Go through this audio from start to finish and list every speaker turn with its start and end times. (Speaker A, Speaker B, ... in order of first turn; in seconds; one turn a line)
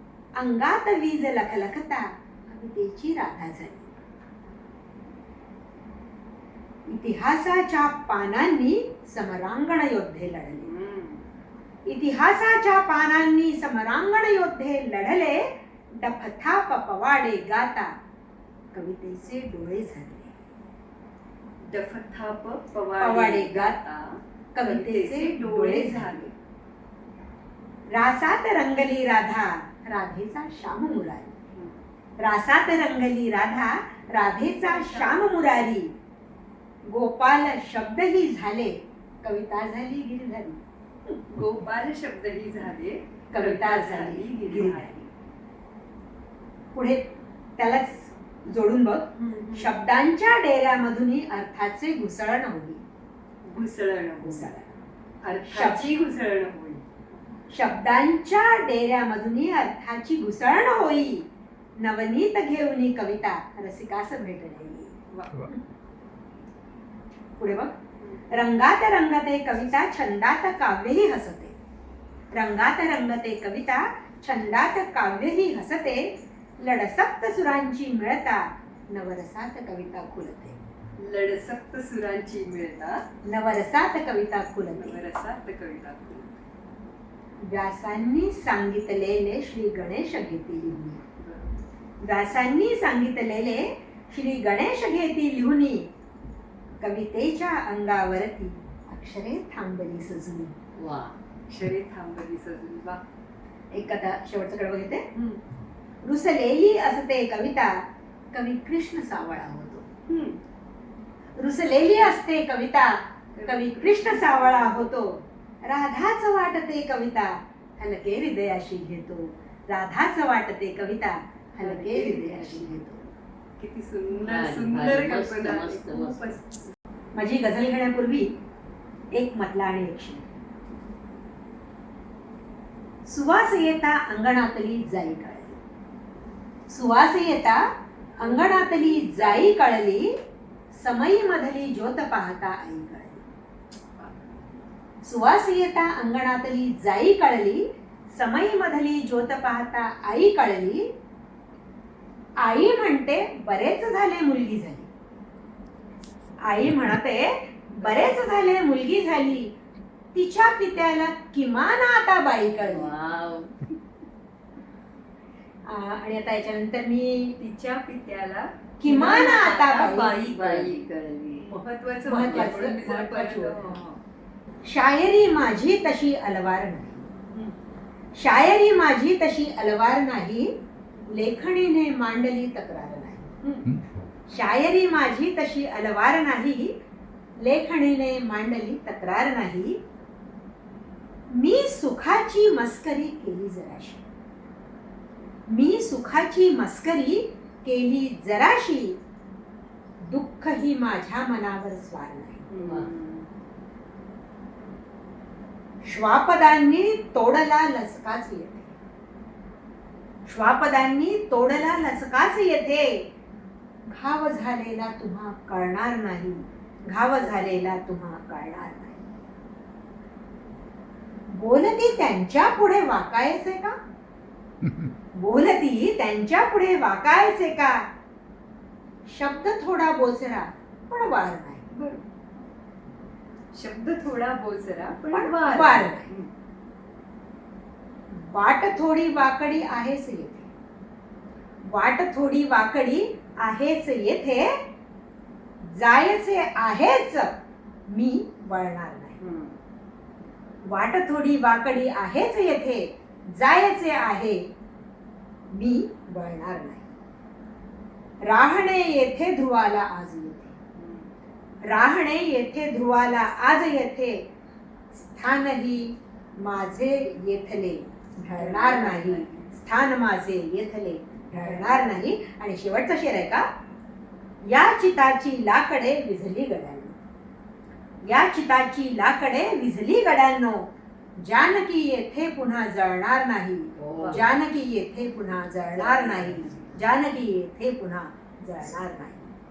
Speaker A: 0.4-3.9
Speaker A: 6.9-10.7
Speaker B: 10.6-11.2
Speaker A: 11.9-17.9
Speaker A: 18.7-20.3
Speaker B: 21.7-26.4
Speaker A: 23.0-23.8
Speaker A: 24.6-26.3
Speaker A: 27.9-31.3
Speaker A: 32.2-35.9
Speaker B: 34.5-35.4
Speaker A: 36.9-40.6
Speaker B: 41.3-45.0
Speaker A: 43.3-45.1
Speaker A: 46.7-47.1
Speaker A: 47.6-52.8
Speaker B: 49.2-49.7
Speaker B: 53.5-54.5
Speaker A: 54.2-54.7
Speaker B: 55.2-56.8
Speaker A: 55.4-56.0
Speaker A: 57.5-65.0
Speaker B: 65.1-65.5
Speaker A: 67.4-67.7
Speaker B: 68.0-68.3
Speaker A: 68.3-71.5
Speaker A: 72.3-80.6
Speaker B: 81.0-83.0
Speaker A: 83.2-85.0
Speaker B: 84.8-86.3
Speaker A: 87.4-91.0
Speaker B: 91.2-91.5
Speaker A: 92.0-95.9
Speaker A: 96.8-100.5
Speaker C: 100.8-101.2
Speaker B: 101.5-103.0
Speaker A: 103.7-105.0
Speaker B: 105.2-105.4
Speaker A: 106.0-107.8
Speaker A: 108.3-109.9
Speaker B: 110.1-110.4
Speaker A: 111.4-123.0
Speaker B: 113.3-114.9
Speaker B: 121.6-122.9
Speaker B: 123.6-126.7
Speaker C: 124.2-126.4
Speaker A: 127.2-128.3
Speaker A: 129.1-130.3
Speaker A: 133.1-135.6
Speaker A: 136.7-137.6
Speaker B: 138.2-139.5
Speaker A: 138.2-140.1
Speaker A: 140.7-143.2
Speaker B: 144.0-144.5
Speaker A: 145.0-150.9
Speaker A: 152.4-154.9
Speaker A: 156.4-159.5
Speaker B: 157.8-158.1
Speaker A: 160.1-163.0
Speaker C: 162.4-163.5
Speaker A: 165.7-167.4
Speaker B: 167.4-170.8
Speaker A: 168.8-170.2
Speaker C: 170.1-171.6
Speaker B: 171.5-174.0
Speaker A: 172.1-173.8
Speaker C: 172.2-172.7
Speaker A: 174.6-177.1
Speaker A: 178.2-180.5
Speaker A: 181.1-183.3
Speaker B: 183.4-183.8
Speaker A: 184.3-186.7
Speaker A: 187.4-189.8
Speaker A: 191.3-194.0
Speaker A: 195.5-199.0
Speaker A: 200.1-202.5
Speaker B: 202.5-203.3
Speaker C: 202.6-202.9
Speaker A: 205.8-208.7
Speaker A: 210.3-213.1
Speaker A: 213.9-219.0
Speaker A: 221.3-223.8
Speaker A: 225.2-227.9
Speaker A: 229.1-231.7
Speaker B: 231.7-232.0
Speaker B: 233.5-236.3
Speaker A: 235.1-236.1
Speaker A: 238.1-240.5
Speaker A: 241.7-244.5
Speaker A: 245.7-247.3
Speaker A: 247.9-249.2
Speaker B: 249.2-249.6
Speaker A: 250.7-254.4
Speaker A: 255.5-256.9
Speaker A: 258.2-260.6
Speaker B: 260.8-261.1
Speaker A: 261.6-264.2
Speaker A: 264.9-273.4
Speaker B: 268.4-269.5
Speaker B: 271.4-272.0
Speaker A: 274.5-277.0
Speaker A: 278.0-289.3
Speaker C: 283.8-284.2
Speaker C: 285.7-286.6